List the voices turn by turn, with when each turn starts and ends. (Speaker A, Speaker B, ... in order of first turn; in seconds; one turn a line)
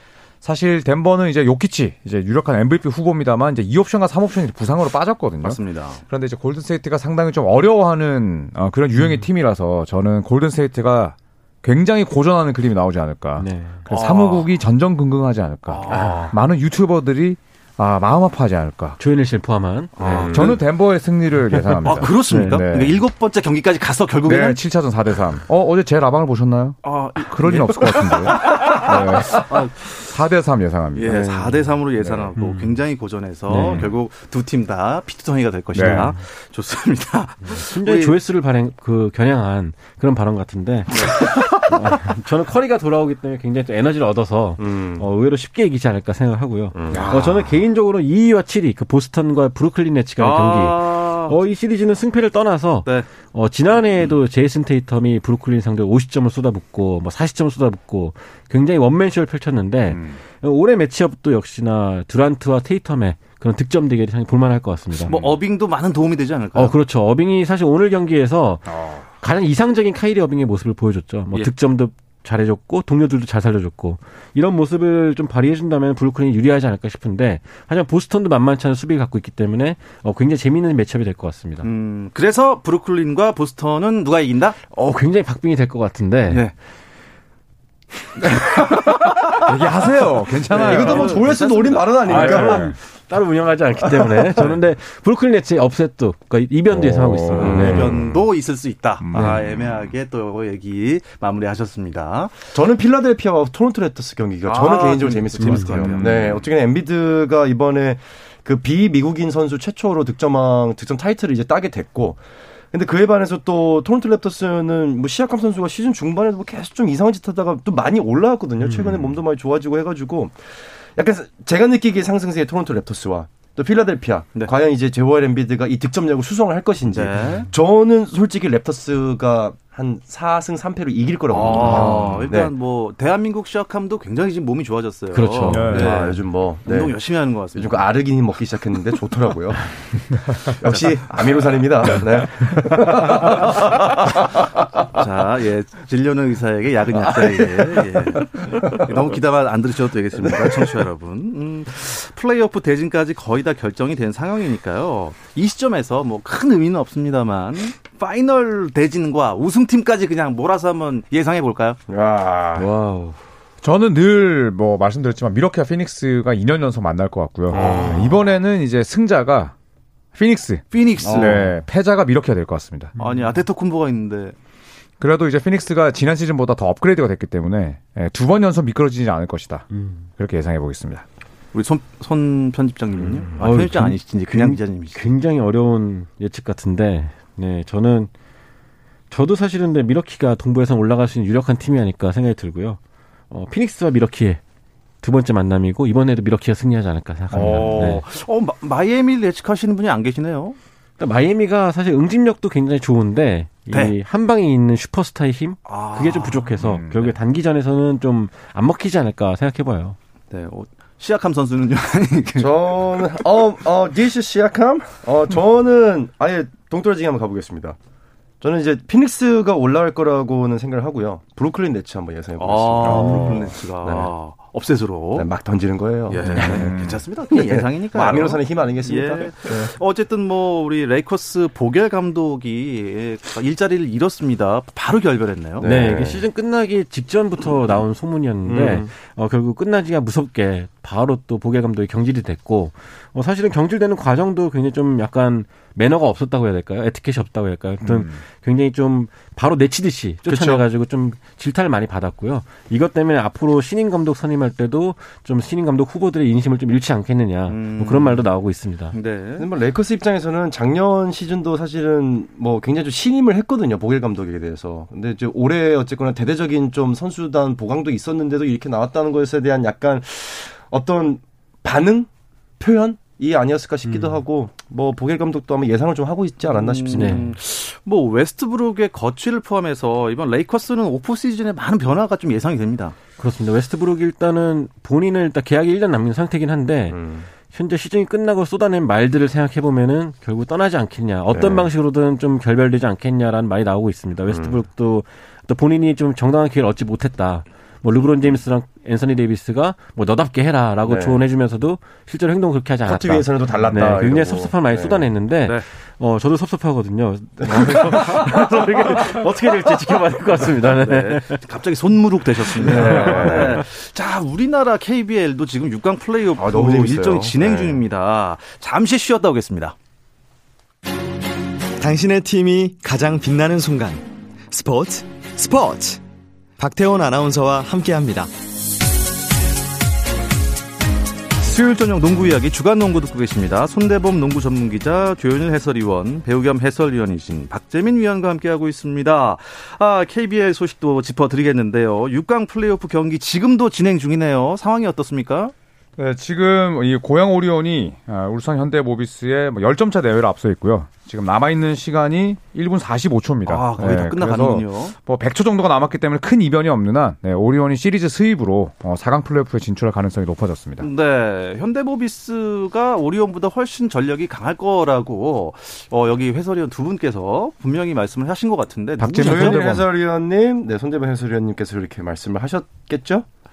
Speaker A: 0.4-19.0
Speaker B: 5.4-6.0
Speaker C: 13.4-13.8
Speaker B: 13.9-14.5
Speaker B: 15.7-16.3
Speaker C: 15.9-16.3
Speaker C: 19.0-20.6
Speaker D: 20.0-20.6
Speaker B: 20.0-20.5
Speaker A: 20.2-23.0
Speaker C: 21.7-22.6
Speaker B: 21.9-24.6
Speaker A: 24.2-31.6
Speaker B: 26.8-30.0
Speaker B: 30.9-38.2
Speaker C: 32.4-32.8
Speaker A: 33.5-33.9
Speaker C: 33.5-33.9
Speaker A: 35.7-36.1
Speaker C: 35.8-36.1
Speaker C: 37.5-65.1
Speaker B: 40.9-41.3
Speaker D: 44.6-45.1
Speaker D: 46.7-47.5
Speaker B: 50.2-51.4
Speaker A: 59.9-60.2
Speaker B: 65.1-66.8
Speaker C: 66.5-81.7
Speaker A: 68.7-69.0
Speaker B: 81.6-84.6
Speaker C: 84.7-86.5
Speaker B: 88.2-89.3
Speaker A: 89.4-91.2
Speaker B: 90.5-92.3
Speaker D: 90.5-92.7
Speaker C: 90.7-91.4
Speaker C: 92.0-98.0
Speaker A: 92.2-92.8
Speaker D: 93.9-94.5
Speaker A: 96.7-98.0
Speaker B: 97.4-102.5
Speaker D: 97.4-98.2
Speaker A: 99.0-99.7
Speaker C: 99.1-99.4
Speaker D: 102.5-112.2
Speaker B: 104.4-106.4
Speaker C: 105.4-106.0
Speaker A: 106.0-106.4
Speaker D: 112.7-132.5
Speaker C: 118.6-119.2
Speaker B: 126.8-127.5
Speaker B: 131.3-137.9
Speaker C: 131.6-132.2
Speaker A: 131.8-132.2
Speaker C: 135.1-135.8
Speaker A: 135.5-136.0
Speaker D: 135.7-137.0
Speaker D: 137.5-144.4
Speaker B: 144.9-161.8
Speaker D: 146.9-148.9
Speaker D: 150.2-150.7
Speaker D: 161.9-162.7
Speaker C: 162.6-163.2
Speaker A: 163.6-169.5
Speaker D: 167.5-168.1
Speaker B: 167.5-168.1
Speaker A: 170.1-172.9
Speaker B: 170.7-171.5
Speaker D: 171.0-171.4
Speaker B: 173.0-174.4
Speaker A: 175.0-179.7
Speaker C: 179.7-180.0
Speaker A: 180.2-181.0
Speaker B: 181.5-185.0
Speaker C: 183.4-188.1
Speaker C: 189.1-192.8
Speaker C: 193.3-194.4
Speaker C: 195.0-198.0
Speaker B: 197.3-200.6
Speaker D: 197.4-197.9
Speaker C: 201.0-210.0
Speaker B: 205.7-206.5
Speaker A: 206.6-207.1
Speaker B: 210.3-213.1
Speaker D: 212.4-217.8
Speaker D: 218.4-224.1
Speaker B: 222.4-225.3
Speaker A: 222.8-223.4
Speaker D: 225.2-226.8
Speaker B: 226.1-235.7
Speaker A: 226.4-227.0
Speaker D: 227.3-229.7
Speaker D: 235.6-236.2
Speaker C: 235.6-258.9
Speaker D: 238.4-238.9
Speaker A: 247.9-248.2
Speaker D: 250.3-250.6
Speaker B: 257.5-258.2
Speaker B: 258.9-259.5
Speaker D: 259.4-272.1
Speaker D: 272.6-277.3
Speaker C: 273.9-274.2
Speaker B: 276.5-282.9
Speaker C: 276.9-277.3
Speaker C: 283.2-311.4
Speaker D: 286.9-287.3
Speaker D: 291.3-291.7
Speaker D: 294.3-294.6
Speaker D: 300.9-301.2
Speaker D: 302.9-305.1
Speaker D: 307.4-308.2
Speaker B: 310.6-319.8
Speaker D: 312.6-313.7
Speaker C: 312.6-313.5
Speaker D: 316.4-317.8
Speaker E: 321.8-326.0
Speaker E: 326.6-328.3
Speaker B: 331.4-345.5
Speaker A: 346.0-360.9
Speaker B: 353.5-354.9
Speaker B: 360.8-369.7
Speaker A: 369.0-369.9
Speaker D: 369.2-373.2